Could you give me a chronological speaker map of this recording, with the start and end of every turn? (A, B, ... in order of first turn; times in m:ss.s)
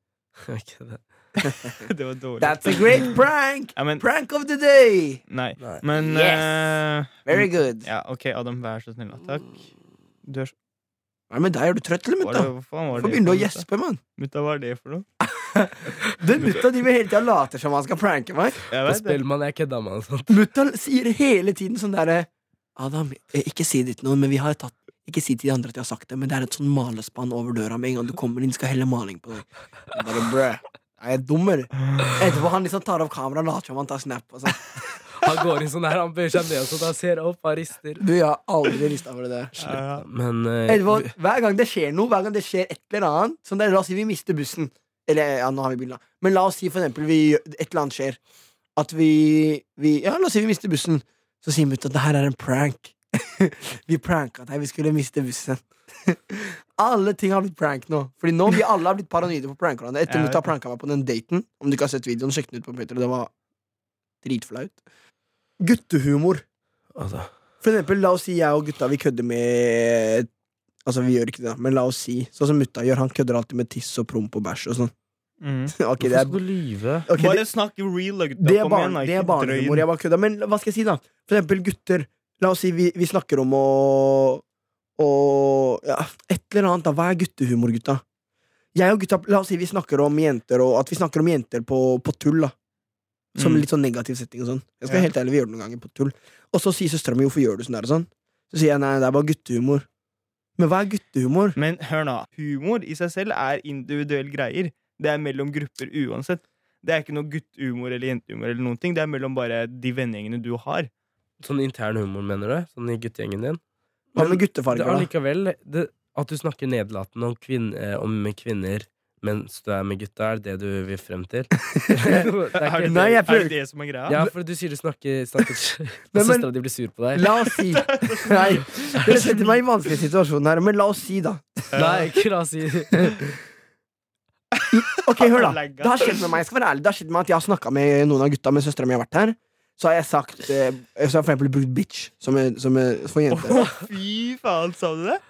0:00.4-0:01.0 A
0:01.4-0:01.9 B
0:01.8-0:03.1 C
0:02.4-0:05.2 B
0:03.8-0:04.0 C
0:05.3-0:09.6 C
0:06.0-0:06.7 B
0:07.2-0:07.9 B
0:10.2-0:10.5 C
0:11.3-0:14.0 B
0:12.2-0:13.6 C
0:14.2-0:15.0 C
0:15.2-0:18.6 B
0:18.7-0:19.2 C
0:18.8-0:20.4 A
0:20.3-0:34.7 B
0:35.1-0:38.0 A
0:38.0-0:39.6 B
0:39.6-0:40.1 C
0:39.6-0:41.1 A
0:40.7-0:48.2 B
0:48.8-1:03.3 B
1:00.1-1:00.5 C
1:04.2-1:04.8 B
1:05.6-1:06.4 B
1:06.9-1:07.3 A
1:07.6-1:10.3 B
1:10.8-1:14.9 B
1:15.4-1:15.7 C
1:15.7-1:16.4 B
1:16.0-1:17.1 A
1:17.0-1:17.5 B
1:17.1-1:19.9 C
1:18.4-1:24.4 B
1:25.0-1:28.0 B
1:28.8-1:32.5 B
1:33.4-1:33.7 C
1:33.4-1:39.9 B
1:40.6-1:41.6 B
1:41.6-1:50.9 C
1:51.4-1:53.6 A
1:54.1-2:03.2 A
1:54.2-1:55.1 B
2:01.6-2:02.3 B
2:02.6-2:04.2 C
2:02.8-2:03.6 B
2:04.1-2:07.3 A
2:06.1-2:06.5 B
2:07.1-2:11.7 B
2:07.8-2:09.6 C
2:11.7-2:12.1 C
2:11.8-2:13.4 A
2:14.6-2:16.2 C
2:14.7-2:23.7 B
2:23.3-2:25.2 C